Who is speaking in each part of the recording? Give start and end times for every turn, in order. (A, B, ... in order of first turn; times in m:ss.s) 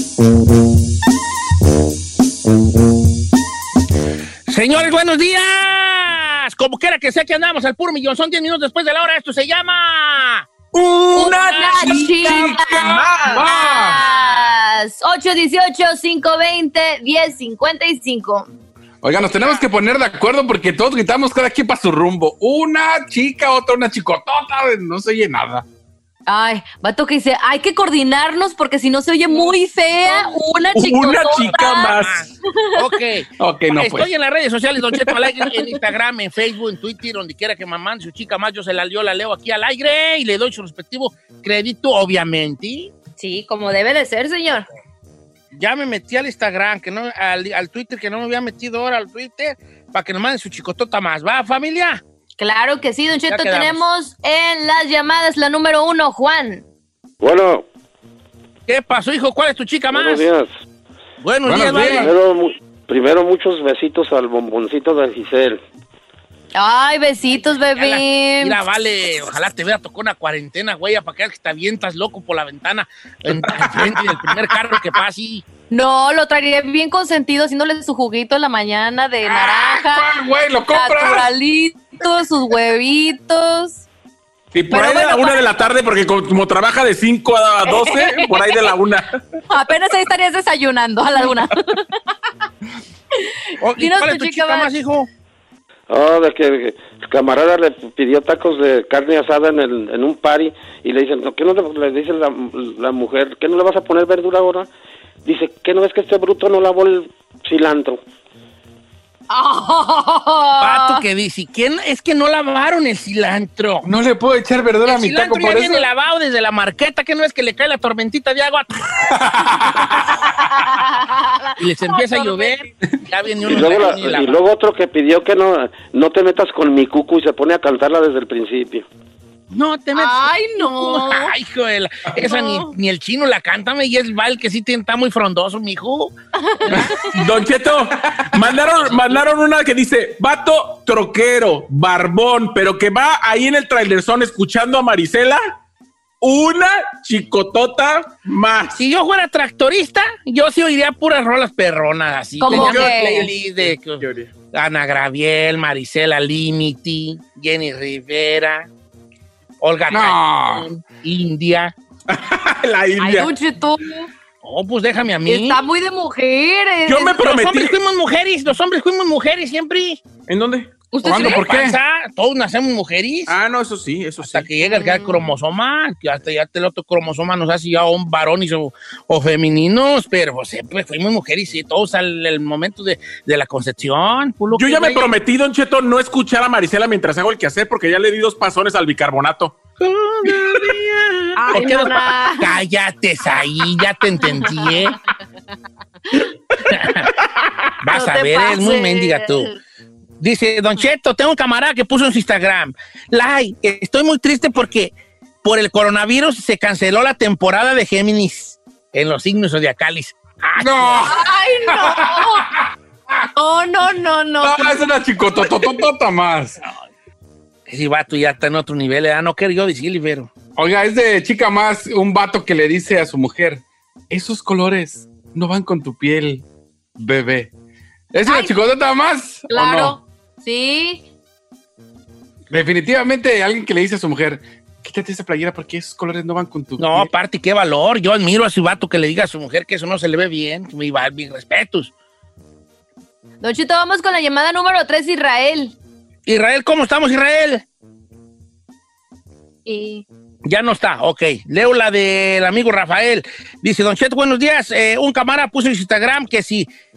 0:04.5-0:10.5 A
0:10.7-0:13.5 B
0:11.1-0:18.5 C
0:11.3-0:12.5 A
0:11.8-0:14.0 D
0:19.0-0:25.6 D
0:26.3-0:32.8 C
0:30.7-0:32.3 B
0:31.5-0:42.9 A
0:33.4-0:34.1 D
0:43.2-0:44.7 C
0:45.5-0:52.0 A
0:52.4-0:56.6 C
0:53.3-0:53.8 A
0:57.2-0:57.7 E
0:58.7-1:00.3 A
0:59.9-1:00.5 E
1:01.2-1:02.1 A
1:01.4-1:02.1 D
1:01.9-1:05.6 E
1:06.6-1:08.6 C
1:07.4-1:15.4 A
1:13.6-1:14.3 D
1:15.7-1:20.1 C
1:19.2-1:21.3 D
1:20.7-1:23.8 C
1:24.5-1:29.2 B
1:24.7-1:25.6 C
1:27.7-1:28.7 C
1:29.5-1:32.0 C
1:33.2-1:34.7 C
1:33.6-1:35.1 A
1:35.9-1:44.7 E
1:45.2-1:48.0 E
1:49.3-1:51.0 C
1:50.6-1:53.9 A
1:53.8-1:55.9 D
1:54.8-1:58.7 A
1:59.1-2:00.2 D
2:00.3-2:02.7 C
2:01.6-2:04.4 A
2:03.5-2:08.9 E
2:09.5-2:16.1 A
2:10.0-2:11.4 C
2:12.2-2:12.7 C
2:16.4-2:17.2 C
2:16.6-2:17.2 A
2:17.1-2:25.4 B
2:26.2-2:28.8 B
2:28.7-2:38.7 A
2:32.4-2:33.3 C
2:32.5-2:34.3 B
2:39.6-2:41.7 A
2:39.9-2:40.7 D
2:42.1-2:43.3 B
2:43.0-2:44.1 C
2:44.4-2:45.6 A
2:45.3-2:47.3 C
2:46.9-2:47.8 B
2:47.2-2:50.0 A
2:50.3-2:50.7 B
2:50.9-2:51.4 C
2:51.0-2:51.8 D
2:51.0-2:53.3 A
2:53.3-2:54.5 B
2:54.2-3:05.1 A
2:54.6-2:55.3 C
3:04.5-3:09.6 B
3:09.8-3:15.0 A
3:11.4-3:12.6 C
3:14.2-3:15.0 C
3:16.6-3:17.1 A
3:17.8-3:19.5 A
3:17.9-3:19.6 C
3:20.2-3:24.9 A
3:25.4-3:31.1 A
3:30.6-3:32.6 D
3:31.1-3:32.5 C
3:33.4-3:34.9 C
3:34.4-3:36.6 D
3:37.7-3:40.3 A
3:40.6-3:46.4 D
3:47.0-3:47.5 D
3:48.1-3:50.0 D
3:48.3-3:48.5 C
3:49.5-3:51.0 C
3:52.5-3:57.1 D
3:56.8-4:01.9 A
4:03.4-4:05.8 C
4:06.3-4:07.6 A
4:09.7-4:10.0 C
4:10.5-4:16.7 A